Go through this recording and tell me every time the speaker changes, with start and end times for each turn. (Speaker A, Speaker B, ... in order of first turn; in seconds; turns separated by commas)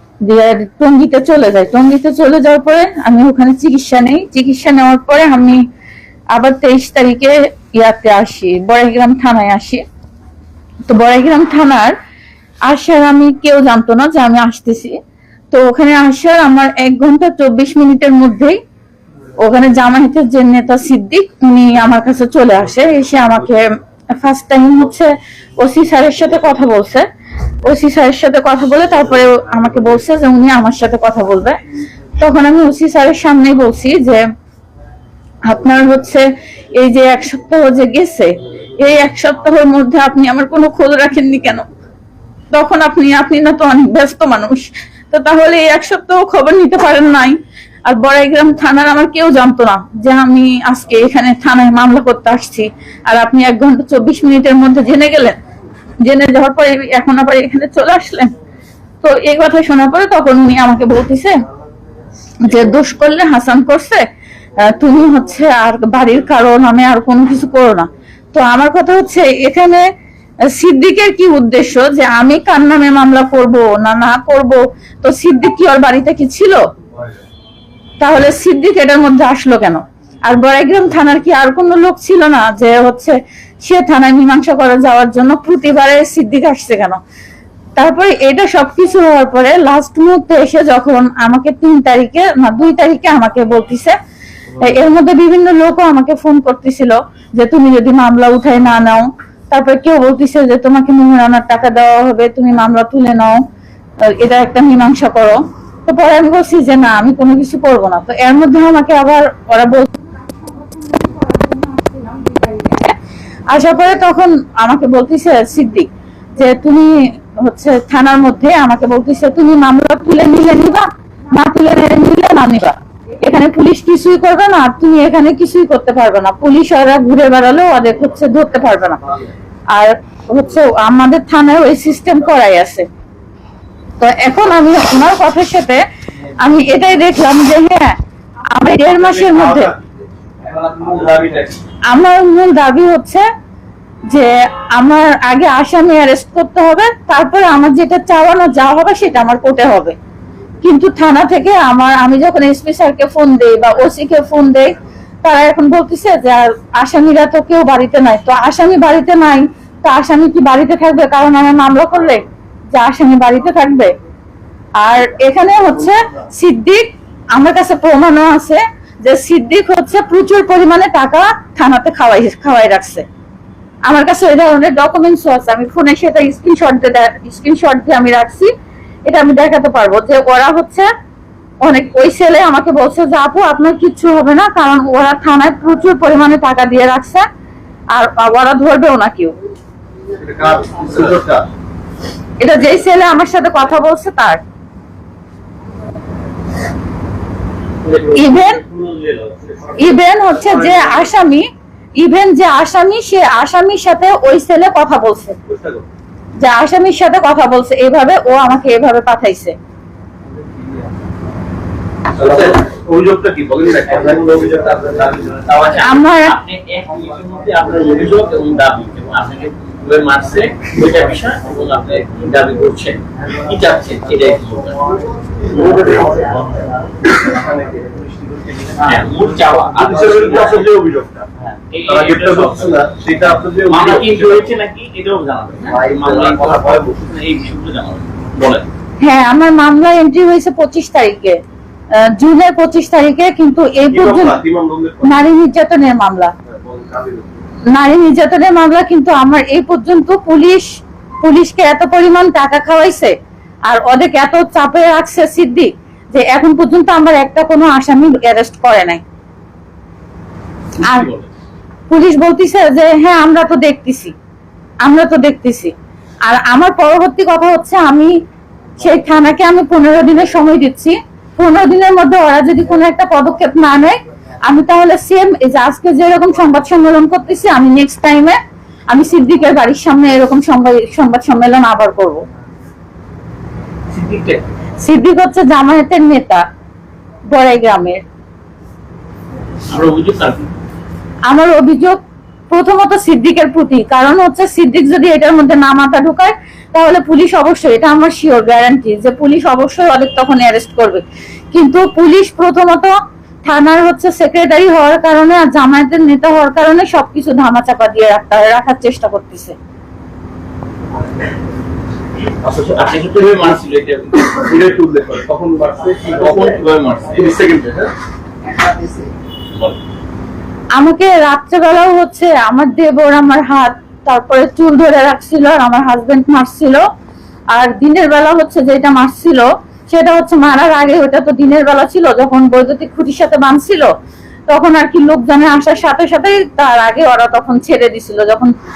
Speaker A: 0.2-5.6, Speaker A: 6.3-9.8, Speaker A: 10.9-11.9, Speaker A: 12.7-15.0, Speaker A: 15.5-18.6, Speaker A: 19.4-27.1, Speaker A: 27.6-31.6, Speaker A: 32.2-34.2, Speaker A: 35.5-41.6, Speaker A: 42.5-55.4, Speaker A: 56.0-58.3, Speaker A: 59.0-61.4, Speaker A: 62.4-64.0, Speaker A: 64.6-69.9, Speaker A: 70.5-76.6, Speaker A: 78.0-87.0, Speaker A: 87.8-94.0, Speaker A: 94.6-103.4, Speaker A: 104.0-112.9, Speaker A: 113.5-129.0, Speaker A: 129.7-132.9, Speaker A: 134.0-135.8, Speaker A: 136.4-137.9, Speaker A: 138.5-139.7, Speaker B: 139.3-139.7, Speaker B: 140.4-141.5, Speaker C: 141.0-141.5, Speaker A: 141.9-143.2, Speaker A: 144.1-149.9, Speaker A: 150.6-163.9, Speaker A: 164.8-173.1, Speaker A: 173.9-178.5, Speaker A: 179.1-180.9, Speaker A: 181.6-187.2, Speaker A: 187.9-189.3, Speaker B: 190.2-191.4, Speaker A: 192.4-194.4, Speaker C: 197.8-199.3, Speaker A: 198.1-198.6, Speaker A: 199.8-201.5, Speaker B: 200.5-200.9, Speaker A: 202.0-205.4, Speaker B: 205.5-205.8, Speaker A: 206.4-209.5, Speaker B: 212.2-215.4, Speaker C: 212.2-212.6, Speaker C: 215.4-224.8, Speaker A: 215.8-216.3, Speaker B: 225.6-226.2, Speaker B: 227.2-227.9, Speaker C: 228.8-230.7, Speaker B: 229.7-231.3, Speaker C: 231.4-232.8, Speaker B: 231.9-234.5, Speaker C: 233.6-238.7, Speaker B: 235.7-236.9, Speaker A: 239.0-241.4, Speaker A: 241.9-244.4, Speaker B: 243.9-245.2, Speaker A: 245.0-246.3, Speaker B: 246.5-247.3, Speaker A: 247.7-250.7, Speaker A: 251.2-253.2, Speaker A: 253.7-259.0, Speaker C: 260.8-261.3, Speaker A: 260.8-261.1, Speaker A: 261.9-264.1, Speaker A: 264.8-265.7, Speaker A: 266.3-268.1, Speaker A: 268.8-278.4, Speaker A: 278.9-282.2, Speaker C: 283.9-284.4, Speaker A: 284.8-286.4, Speaker A: 287.3-288.0, Speaker C: 289.7-290.5, Speaker A: 291.3-292.0, Speaker A: 292.5-302.9, Speaker A: 303.4-309.6, Speaker C: 312.4-314.7, Speaker B: 314.4-317.9, Speaker C: 316.0-317.2, Speaker C: 319.5-319.8, Speaker A: 320.8-326.8, Speaker A: 327.5-333.9, Speaker A: 334.5-338.5